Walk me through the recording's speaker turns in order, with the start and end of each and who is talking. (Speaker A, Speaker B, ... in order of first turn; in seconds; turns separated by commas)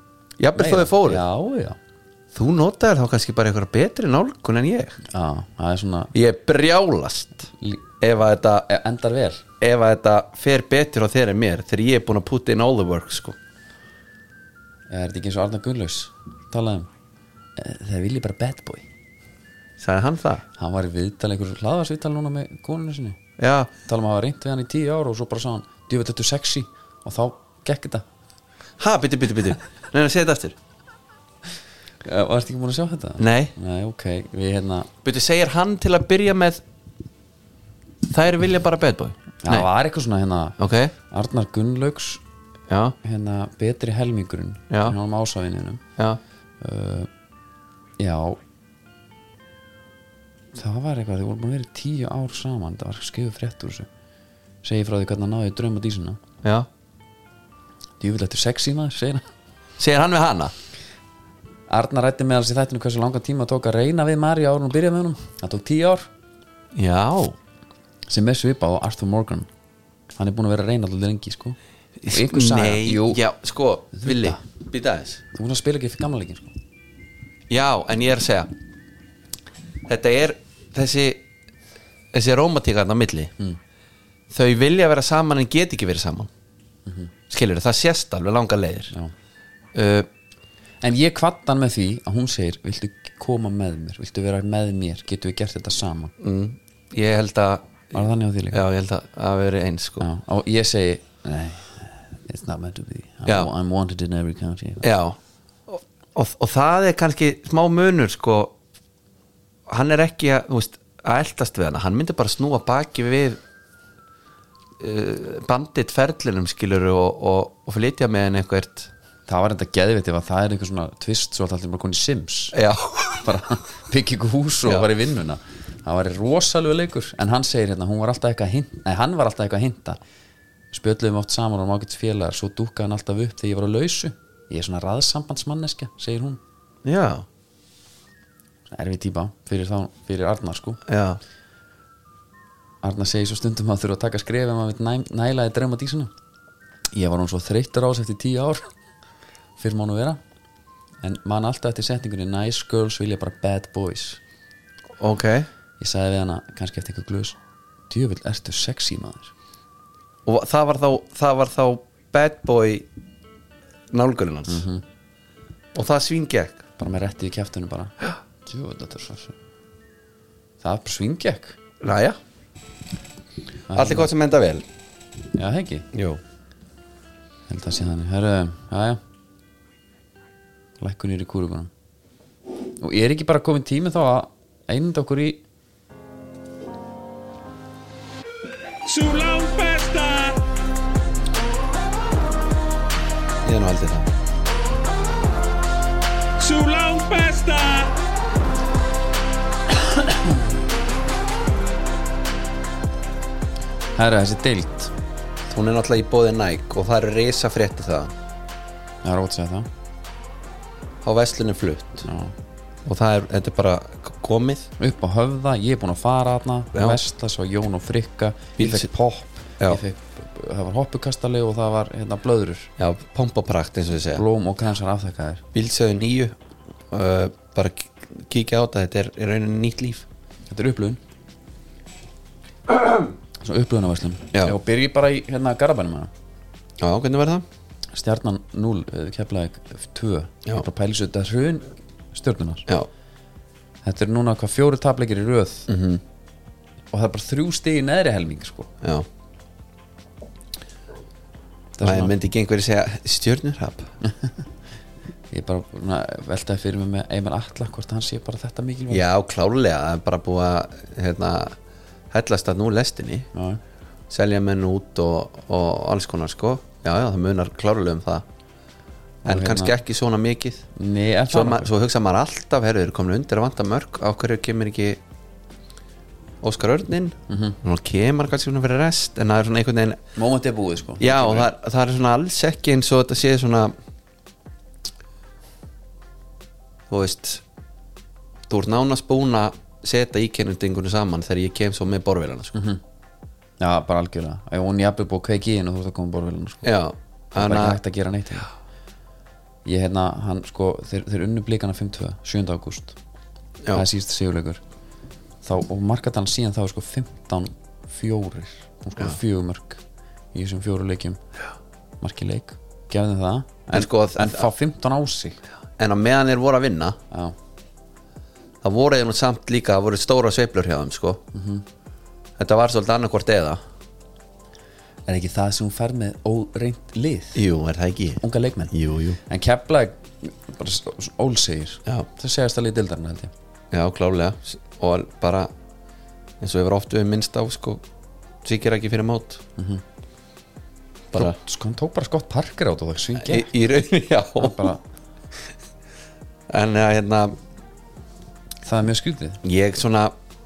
Speaker A: 0.4-1.2, Speaker B: 0.6-1.8, Speaker A: 2.3-5.0, Speaker B: 5.1-6.1, Speaker A: 6.1-7.5, Speaker B: 7.5-7.8, Speaker A: 8.0-8.7, Speaker B: 8.7-9.4, Speaker A: 9.6-13.4, Speaker B: 14.9-16.9, Speaker B: 17.6-18.9, Speaker A: 19.8-20.4, Speaker B: 20.6-23.2, Speaker A: 23.4-23.7, Speaker B: 23.9-28.0, Speaker A: 28.8-30.6, Speaker B: 32.0-34.9, Speaker A: 33.2-33.5, Speaker A: 35.0-36.6, Speaker A: 38.1-39.7, Speaker B: 39.4-40.6, Speaker A: 40.6-40.9, Speaker B: 41.1-42.2, Speaker A: 42.7-43.0, Speaker B: 43.0-45.8, Speaker A: 44.7-45.0, Speaker B: 46.6-47.1, Speaker B: 48.0-48.4, Speaker B: 50.5-53.9, Speaker B: 54.6-56.2, Speaker A: 56.4-56.7, Speaker B: 58.0-59.2, Speaker A: 59.8-60.5, Speaker B: 61.7-66.1, Speaker A: 66.7-67.4, Speaker B: 68.1-69.5, Speaker B: 70.2-73.2, Speaker A: 72.0-75.2, Speaker B: 73.9-74.4, Speaker B: 75.3-76.5, Speaker A: 77.5-78.5, Speaker A: 79.8-81.2, Speaker A: 82.1-83.3, Speaker A: 84.3-86.3, Speaker B: 86.8-87.1, Speaker A: 87.3-88.9, Speaker A: 89.7-90.1, Speaker B: 90.8-96.1, Speaker A: 96.2-97.9, Speaker B: 97.9-98.6, Speaker A: 98.5-100.0, Speaker B: 100.0-104.8, Speaker A: 104.8-108.5, Speaker A: 109.7-113.4, Speaker A: 114.8-118.9, Speaker B: 119.3-122.6, Speaker A: 122.5-123.2, Speaker B: 123.2-130.0, Speaker A: 124.6-124.9, Speaker B: 130.7-136.4, Speaker A: 136.8-137.2, Speaker B: 138.7-140.8, Speaker A: 140.9-141.2, Speaker B: 142.8-146.1, Speaker B: 146.9-148.7, Speaker B: 149.6-150.2, Speaker B: 151.0-154.2, Speaker A: 155.0-155.5, Speaker B: 155.8-157.4, Speaker B: 157.9-159.3, Speaker A: 160.2-162.9, Speaker A: 163.9-164.6, Speaker B: 164.5-164.8, Speaker A: 165.7-166.6, Speaker B: 166.8-167.9, Speaker B: 168.4-169.3, Speaker B: 170.6-171.6, Speaker A: 171.8-172.2, Speaker B: 173.7-174.1, Speaker A: 173.7-174.6, Speaker B: 175.3-175.9, Speaker A: 175.9-176.2, Speaker B: 177.5-179.0, Speaker B: 180.8-181.7, Speaker B: 182.8-185.4, Speaker C: 188.8-190.4, Speaker A: 193.4-194.1, Speaker C: 196.4-197.9, Speaker B: 203.9-204.9, Speaker A: 205.5-208.1, Speaker B: 209.0-209.7, Speaker A: 211.0-212.1, Speaker B: 212.1-212.3, Speaker A: 212.8-214.7, Speaker B: 214.8-222.7, Speaker A: 216.7-217.0, Speaker A: 218.6-218.9, Speaker A: 222.8-224.2, Speaker B: 224.1-225.4, Speaker A: 225.5-226.3, Speaker A: 226.9-230.1, Speaker B: 230.5-231.0, Speaker B: 233.4-236.1, Speaker A: 236.8-237.4, Speaker B: 237.9-242.7, Speaker B: 243.8-245.7, Speaker A: 245.7-246.0, Speaker B: 246.9-248.7, Speaker B: 251.8-252.1, Speaker A: 251.8-253.9, Speaker B: 254.0-254.3, Speaker B: 255.3-259.1, Speaker A: 258.9-261.6, Speaker A: 262.1-263.3, Speaker B: 263.3-263.6, Speaker A: 264.1-268.2, Speaker B: 269.2-269.8, Speaker A: 269.2-270.6, Speaker B: 270.8-271.7, Speaker A: 271.3-275.0, Speaker A: 276.4-280.0, Speaker B: 277.3-277.6, Speaker B: 280.1-281.5, Speaker A: 281.0-283.7, Speaker A: 286.9-287.4, Speaker A: 288.5-292.5, Speaker B: 292.5-292.8, Speaker B: 293.6-296.7, Speaker A: 296.6-297.8, Speaker B: 297.4-298.5, Speaker B: 299.6-303.0, Speaker B: 303.7-304.6, Speaker B: 305.4-309.8, Speaker B: 310.3-311.2, Speaker B: 312.0-315.4, Speaker A: 313.7-314.5, Speaker A: 315.8-317.0, Speaker B: 317.1-317.4, Speaker A: 318.6-321.2, Speaker B: 321.3-321.6, Speaker A: 322.4-323.6, Speaker B: 325.1-327.4, Speaker A: 327.3-329.2, Speaker B: 328.2-328.7, Speaker B: 329.2-333.3, Speaker A: 333.7-335.5, Speaker A: 336.4-337.8, Speaker A: 338.4-339.4, Speaker B: 339.6-339.8, Speaker B: 341.1-343.5, Speaker A: 343.2-344.7, Speaker B: 344.4-344.8, Speaker A: 346.5-347.4, Speaker B: 348.6-349.4, Speaker A: 349.4-350.1